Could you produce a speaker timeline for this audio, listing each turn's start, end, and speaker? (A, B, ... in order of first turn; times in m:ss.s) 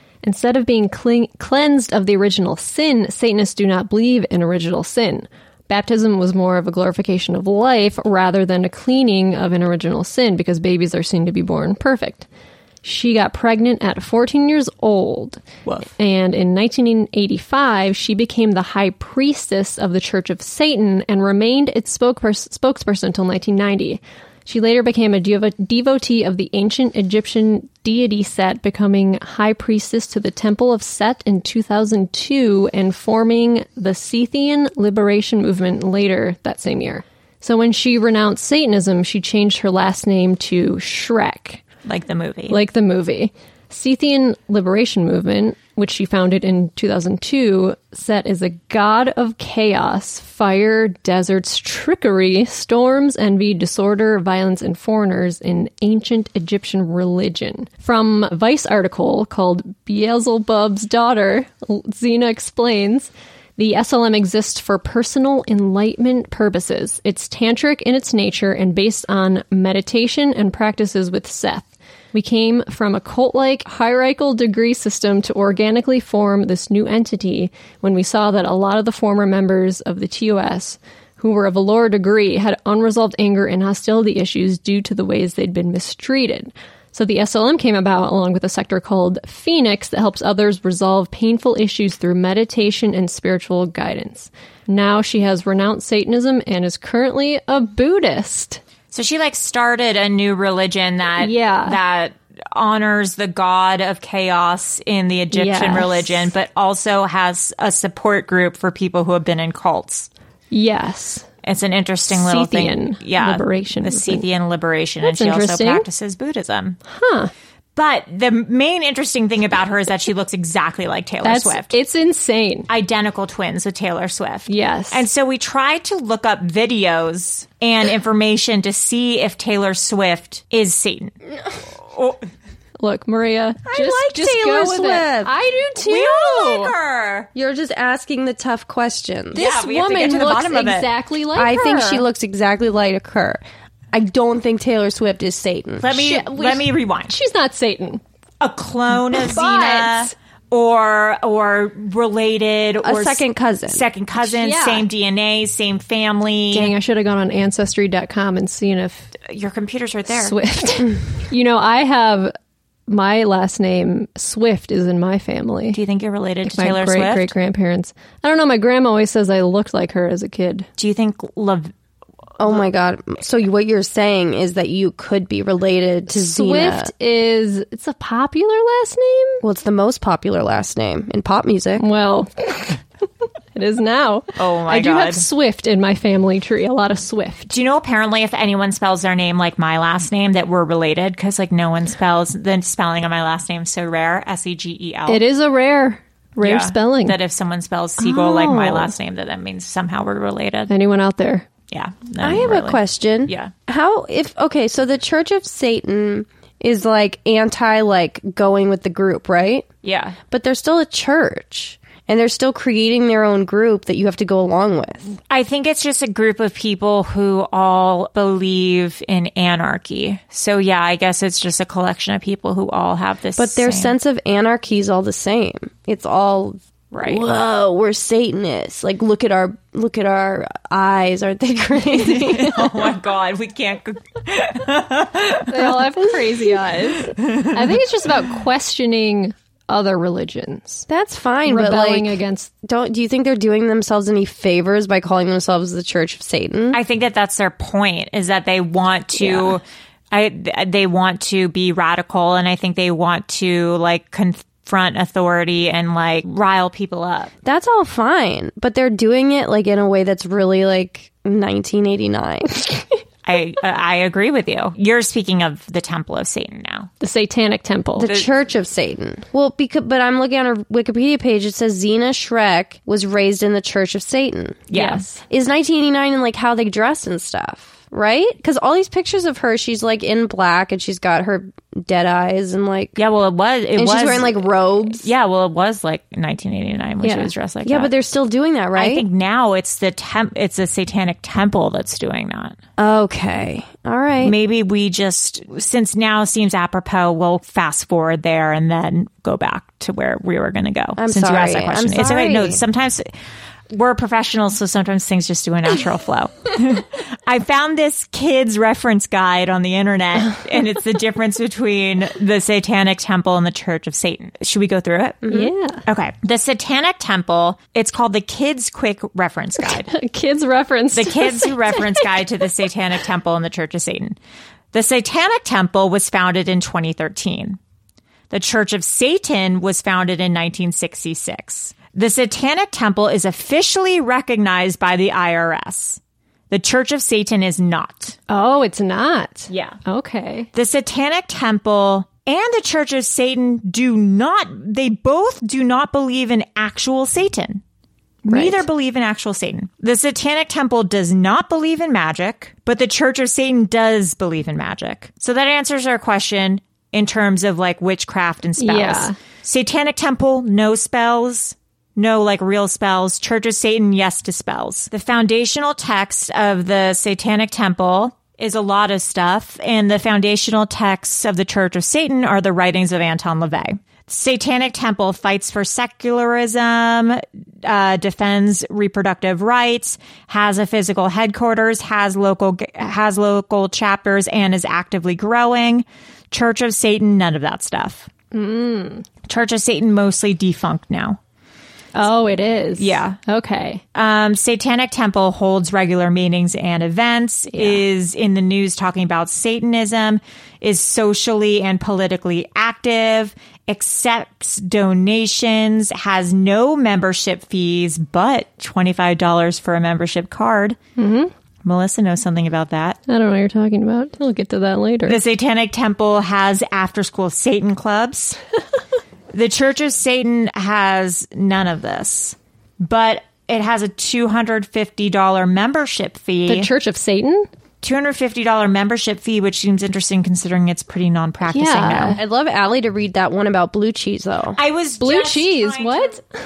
0:00.2-0:12.3 A
0:12.8-0:41.6 A
0:15.6-0:15.9 B
0:41.8-0:42.6 B
0:42.5-1:38.6 A
1:38.9-1:50.1 B
1:41.2-1:41.8 A
1:45.3-1:46.3 A
1:50.5-1:51.3 A
1:51.4-1:56.8 B
1:52.1-1:54.2 A
1:55.0-1:55.9 A
1:56.9-1:57.3 A
1:57.8-2:01.7 B
2:01.2-2:02.7 A
2:02.7-2:11.1 B
2:04.5-2:05.0 A
2:11.8-2:12.2 B
2:12.8-2:16.7 A
2:13.7-2:15.3 C
2:15.8-2:17.3 B
2:17.3-2:19.4 C
2:19.3-2:22.0 A
2:19.3-2:20.9 B
2:21.3-2:25.9 C
2:25.8-2:27.1 B
2:25.9-2:28.0 A
2:28.4-2:36.7 B
2:29.1-2:30.1 A
2:32.8-2:33.8 C
2:34.2-2:34.8 A
2:36.5-2:39.1 A
2:39.2-2:40.3 B
2:40.1-2:42.3 A
2:42.9-2:45.8 A
2:45.7-2:47.3 B
2:46.4-2:50.7 A
2:50.8-2:51.7 B
2:52.4-2:56.9 C
2:56.1-2:59.4 A
2:59.4-3:01.8 C
3:01.8-3:02.8 A
3:03.5-3:07.5 A
3:04.4-3:05.2 B
3:07.5-3:15.2 B
3:15.1-3:17.2 A
3:16.4-3:20.7 B
3:18.0-3:18.9 A
3:20.7-3:21.4 A
3:21.7-3:23.5 B
3:22.2-3:29.7 C
3:29.8-3:30.2 B
3:30.3-3:35.0 C
3:35.3-3:43.9 B
3:43.4-3:52.7 C
3:46.9-3:47.2 B
3:51.8-3:55.9 B
3:55.5-4:00.9 A
3:57.2-3:57.6 B
4:00.9-4:06.8 C
4:01.4-4:02.5 A
4:06.7-4:17.3 B
4:09.2-4:09.6 C
4:17.4-4:22.8 C
4:23.2-4:26.9 B
4:27.0-4:28.1 A
4:28.0-4:34.6 C
4:34.7-4:35.1 B
4:34.7-4:35.2 A
4:35.3-4:43.0 C
4:43.0-4:44.4 B
4:43.8-4:45.1 C
4:45.0-4:47.9 B
4:47.0-4:47.3 A
4:47.6-4:49.0 C
4:48.7-4:52.6 B
4:52.8-4:54.3 C
4:54.2-5:03.1 B
5:01.0-5:02.6 C
5:03.7-5:15.2 B
5:15.3-5:15.8 A
5:15.8-5:19.9 B
5:19.6-5:22.1 A
5:20.9-5:24.2 B
5:24.7-5:27.6 B
5:28.3-5:38.2 B
5:38.3-5:40.5 A
5:39.5-5:39.8 B
5:40.5-5:47.6 B
5:48.2-6:28.1 B
5:48.3-5:48.6 A
5:58.6-5:59.1 A
6:28.3-6:29.0 A
6:29.2-6:31.2 B
6:31.9-6:33.8 A
6:32.8-6:33.2 B
6:33.9-6:50.8 B
6:37.5-6:37.8 A
6:51.0-6:51.3 A
6:51.6-6:53.0 B
6:53.1-6:55.2 A
6:55.1-6:58.4 B
6:59.3-7:06.7 B
7:06.5-7:07.5 A
7:07.8-7:12.2 B
7:11.5-7:12.2 A
7:12.2-7:14.6 C
7:14.6-7:16.2 B
7:15.0-7:16.2 A